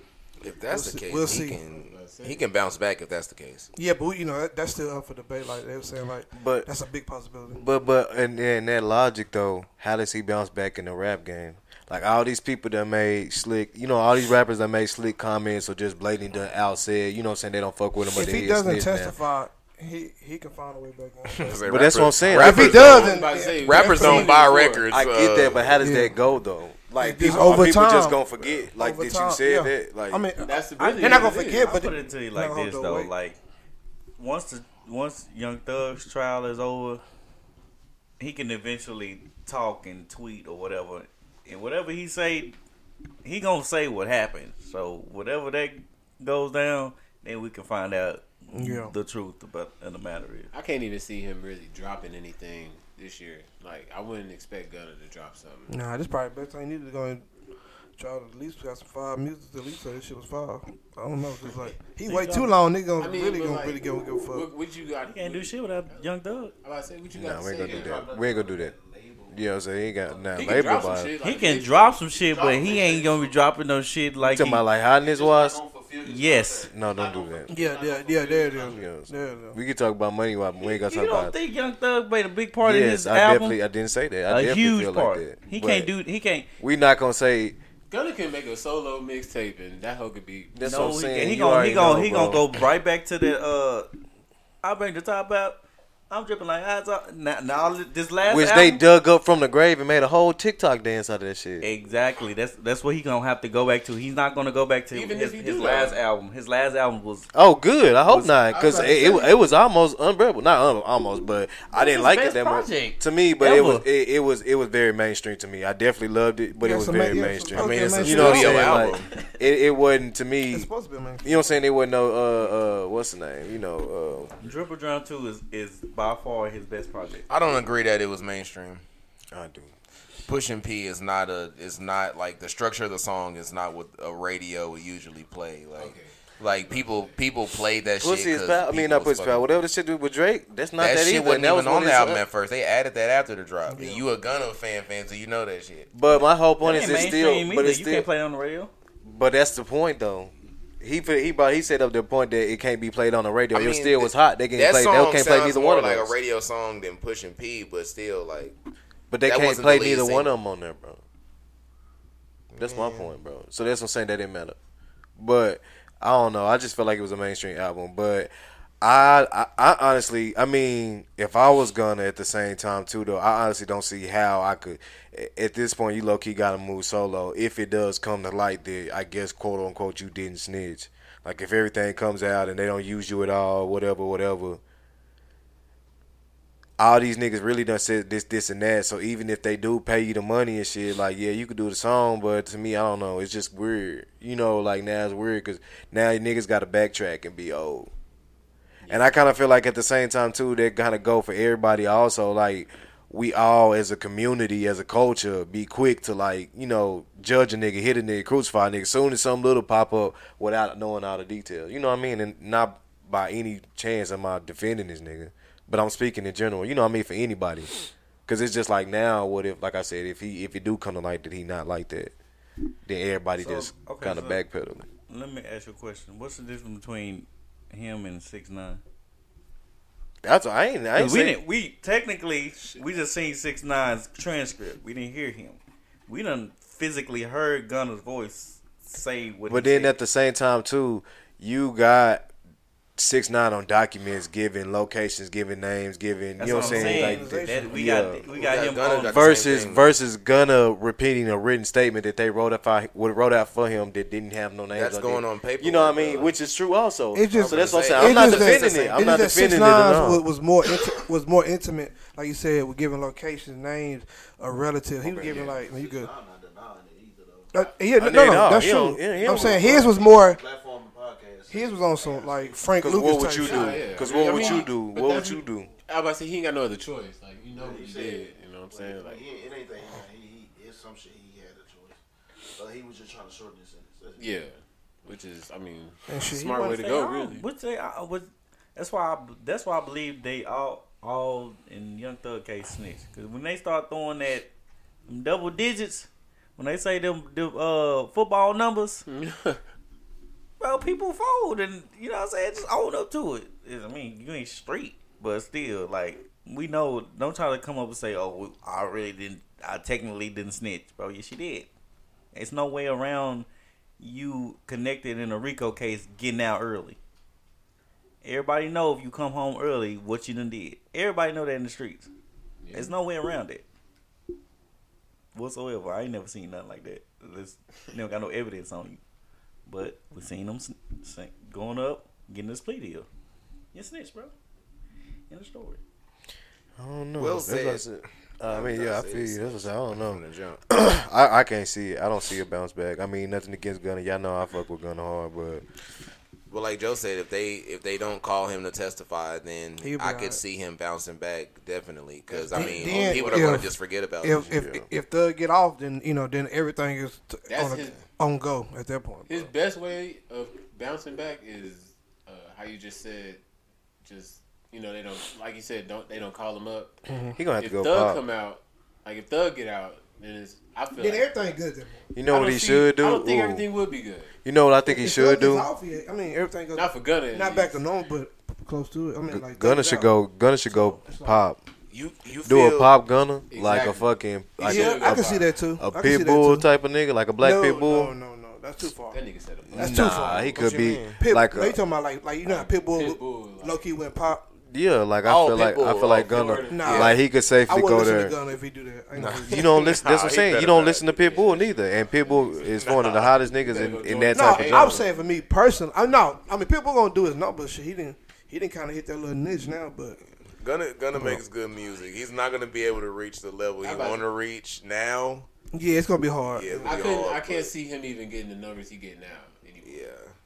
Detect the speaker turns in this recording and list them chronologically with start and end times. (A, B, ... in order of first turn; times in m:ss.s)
0:00.4-0:03.7 A
0:00.7-0:01.6 B
0:01.8-0:02.4 C
0:03.8-0:07.6 B
0:06.3-0:06.7 D
0:07.6-0:19.2 D
0:18.1-0:21.6 B
0:21.3-0:25.8 A
0:21.7-0:22.9 D
0:22.3-0:24.4 B
0:22.4-0:24.9 C
0:24.9-0:30.2 D
0:25.8-0:26.2 B
0:27.0-0:33.1 B
0:30.4-0:31.8 C
0:30.8-0:33.4 E
0:34.2-0:37.0 E
0:38.2-0:42.6 E
0:43.2-0:50.5 E
0:48.5-0:48.9 B
0:50.5-0:55.7 C
0:55.7-0:57.3 B
0:58.0-1:04.5 B
1:02.1-1:02.5 E
1:03.0-1:08.0 C
1:05.1-1:06.5 E
1:07.1-1:08.7 D
1:07.5-1:09.4 F
1:09.3-1:11.1 D
1:10.1-1:10.7 F
1:10.4-1:12.0 C
1:11.2-1:14.6 E
1:12.2-1:13.4 F
1:14.2-1:15.6 D
1:15.0-1:19.0 F
1:16.0-1:16.7 E
1:16.7-1:17.5 D
1:17.5-1:19.6 B
1:18.6-1:21.3 D
1:20.8-1:23.6 E
1:22.6-1:25.9 D
1:24.3-1:26.5 E
1:26.6-1:27.6 D
1:27.9-1:31.0 C
1:30.5-1:32.5 D
1:30.6-1:33.9 E
1:34.6-1:38.8 E
1:38.3-1:41.7 D
1:41.6-1:47.3 E
1:44.9-1:46.0 C
1:47.3-2:00.7 D
1:48.6-1:48.9 F
1:51.8-1:53.9 E
1:56.6-1:58.9 B
1:57.5-1:59.1 A
2:00.5-2:01.4 B
2:01.2-2:04.3 D
2:04.4-2:07.3 E
2:07.3-2:08.8 A
2:09.3-2:09.7 D
2:10.3-2:19.5 A
2:15.8-2:17.2 C
2:18.0-2:22.2 D
2:20.8-2:25.9 A
2:23.7-2:24.1 B
2:25.9-2:28.1 D
2:26.6-2:28.7 E
2:29.0-2:36.2 D
2:33.5-2:38.6 A
2:39.1-2:41.0 D
2:39.3-2:40.3 A
2:42.5-2:43.1 A
2:42.6-2:44.6 D
2:45.2-3:04.6 D
3:06.8-3:17.9 D
3:18.9-3:37.7 D
3:38.3-3:42.1 D
3:42.8-3:44.9 D
3:43.4-3:44.4 E
3:45.1-3:48.8 E
3:50.2-3:51.4 D
3:51.0-4:00.0 E
3:59.5-4:02.3 D
4:03.0-4:08.3 D
4:06.4-4:09.3 E
4:06.4-4:07.9 B
4:08.3-4:09.9 A
4:09.0-4:20.2 D
4:14.7-4:16.3 A
4:17.1-4:26.1 B
4:17.3-4:19.2 A
4:25.0-4:27.6 F
4:27.5-4:30.4 B
4:28.0-4:29.9 D
4:29.1-4:32.8 F
4:31.5-4:33.9 B
4:32.8-4:35.7 D
4:33.4-4:39.2 C
4:33.5-4:34.6 F
4:37.5-4:42.0 F
4:42.6-4:44.4 F
4:44.2-4:47.4 C
4:46.1-4:47.0 B
4:46.8-4:54.5 E
4:55.1-4:59.1 E
4:59.1-4:59.6 C
5:00.6-5:11.7 E
5:12.3-5:13.5 E
5:14.0-5:17.0 E
5:18.2-5:22.1 E
5:22.6-5:22.9 C
5:22.7-5:23.6 E
5:25.3-5:29.0 E
5:29.7-5:33.1 E
5:33.7-5:34.3 E
5:35.3-5:35.8 E
5:36.8-5:45.6 D
5:37.2-5:37.9 A
5:38.4-5:40.6 A
5:46.5-5:54.5 A
5:49.8-5:50.4 B
5:52.3-5:53.6 C
5:52.5-5:59.5 B
5:54.4-5:54.9 D
5:57.5-5:58.0 C
5:59.3-6:03.4 C
6:04.0-6:07.0 C
6:07.1-6:07.4 B
6:07.4-6:08.2 D
6:07.6-6:11.3 C
6:11.0-6:12.1 B
6:12.1-6:13.6 D
6:12.3-6:14.4 C
6:14.4-6:15.7 D
6:14.8-6:20.1 B
6:16.7-6:17.8 C
6:19.3-6:21.6 D
6:20.7-6:21.4 B
6:21.9-6:22.9 A
6:22.4-6:28.2 D
6:23.5-6:25.5 C
6:24.6-6:26.7 B
6:27.4-6:29.2 B
6:29.1-6:30.2 C
6:29.7-6:31.8 D
6:29.7-6:34.5 B
6:30.5-6:31.2 A
6:32.4-6:33.9 C
6:34.7-6:38.4 D
6:35.3-6:36.5 A
6:36.3-6:37.2 C
6:36.7-6:39.7 B
6:39.2-6:41.5 A
6:39.5-6:45.1 D
6:41.2-6:45.3 C
6:42.8-6:43.3 A
6:44.3-6:50.2 B
6:50.5-6:55.5 A
6:53.8-6:54.3 C
6:55.7-6:57.2 B
6:56.5-6:57.7 A
6:56.8-7:00.0 C
6:59.8-7:00.4 A